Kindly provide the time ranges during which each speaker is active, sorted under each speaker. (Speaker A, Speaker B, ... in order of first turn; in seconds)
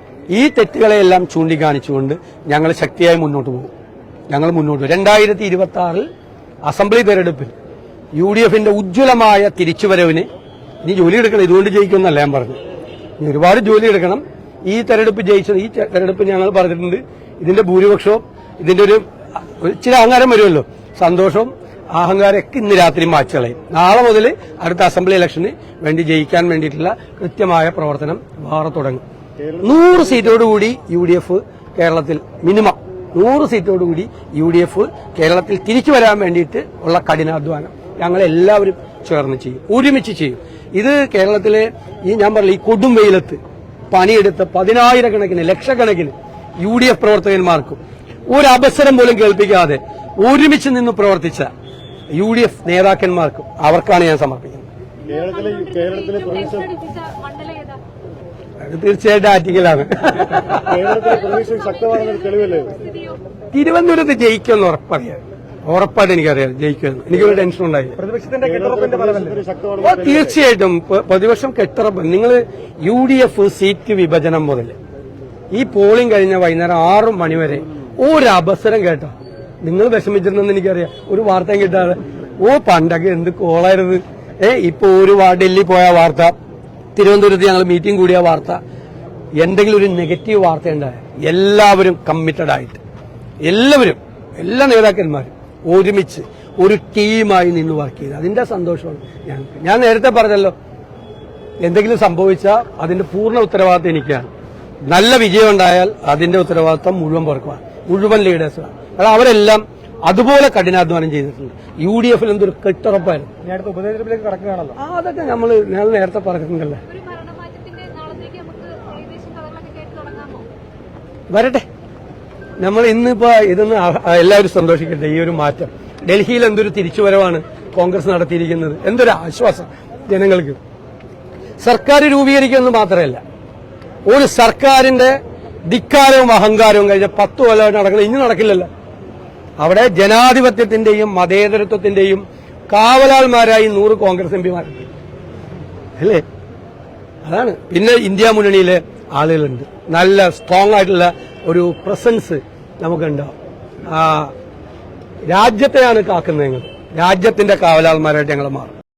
Speaker A: 0.3-3.7, 4.3-6.1, 6.6-7.5, 8.1-10.3, 10.8-12.6, 13.2-29.0, 29.6-43.4, 43.9-51.5, 52.1-54.7, 58.6-61.0, 63.5-68.0, 69.8-74.7, 75.5-86.3, 86.9-88.6, 89.4-92.8, 93.4-100.5, 101.6-104.3, 104.9-113.3, 114.8-116.8, 121.3-121.7, 122.6-130.6, 131.6-133.2, 134.1-138.7, 139.6-144.9, 146.0-146.2, 147.2-153.3, 153.9-154.3, 155.3-158.7
Speaker B: 55.1-57.8, 61.0-63.2, 116.9-120.5
Speaker C: 68.0-69.5, 113.4-114.8